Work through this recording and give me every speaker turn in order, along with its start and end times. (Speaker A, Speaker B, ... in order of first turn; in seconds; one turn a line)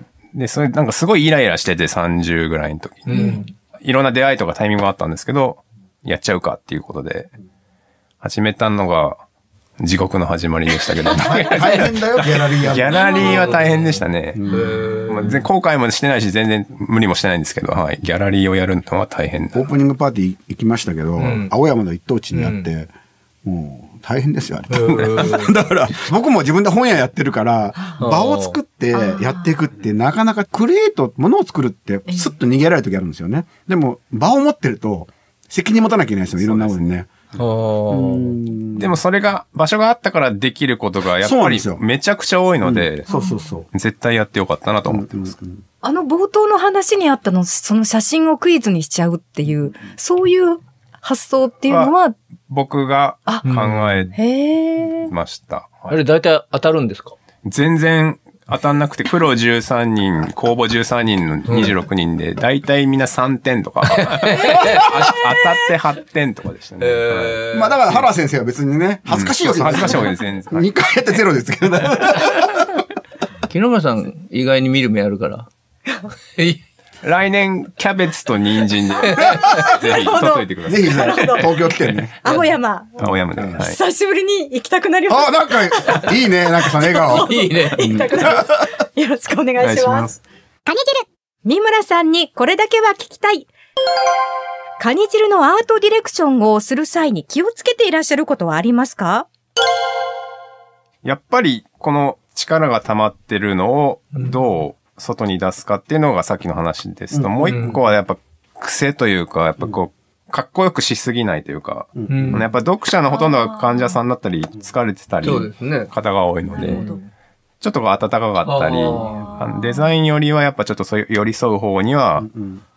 Speaker A: 0.3-7.3
Speaker B: 3.0-3.5
Speaker C: 3.1-3.4
Speaker A: 8.2-9.2
Speaker A: 9.8-19.6
Speaker D: 11.2-13.5
Speaker C: 12.9-13.5
Speaker B: 13.2-13.9
Speaker D: 14.3-14.9
Speaker B: 14.5-15.4
Speaker D: 19.5-22.9
Speaker B: 21.2-21.5
Speaker B: 22.3-22.7
Speaker D: 23.4-37.3
Speaker B: 24.7-25.5
Speaker B: 28.0-28.6
Speaker C: 28.9-29.5
Speaker A: 36.4-36.8
Speaker B: 37.4-38.4
Speaker D: 37.9-39.0
Speaker A: 38.8-43.1
Speaker D: 41.2-41.8
Speaker D: 42.6-43.7
Speaker C: 43.1-43.5
Speaker A: 43.7-45.3
Speaker D: 44.9-45.6
Speaker C: 45.8-52.1
Speaker A: 52.5-54.1
Speaker B: 53.4-54.1
Speaker C: 54.1-55.1
Speaker A: 55.1-56.0
Speaker B: 55.9-57.1
Speaker A: 57.4-67.4
Speaker B: 61.5-61.7
Speaker B: 63.9-65.2
Speaker D: 64.5-64.8
Speaker B: 66.8-68.0
Speaker D: 67.5-72.8
Speaker A: 69.1-70.6
Speaker B: 73.5-75.5
Speaker A: 77.0-81.1
Speaker B: 79.0-79.5
Speaker D: 79.2-79.5
Speaker C: 79.3-81.5
Speaker D: 80.6-82.4
Speaker C: 82.2-93.5
Speaker A: 83.0-83.8
Speaker D: 85.1-88.5
Speaker B: 87.0-88.1
Speaker A: 89.6-90.1
Speaker C: 94.8-99.3
Speaker A: 101.0-116.8
Speaker B: 104.2-104.4
Speaker D: 107.1-107.8
Speaker B: 107.4-107.8
Speaker D: 112.0-112.4
Speaker B: 112.1-112.4
Speaker C: 113.1-114.0
Speaker B: 115.2-115.9
Speaker C: 116.5-117.0
Speaker B: 116.6-117.0
Speaker A: 117.6-122.3
Speaker B: 118.4-119.3
Speaker C: 119.2-119.9
Speaker D: 122.3-122.6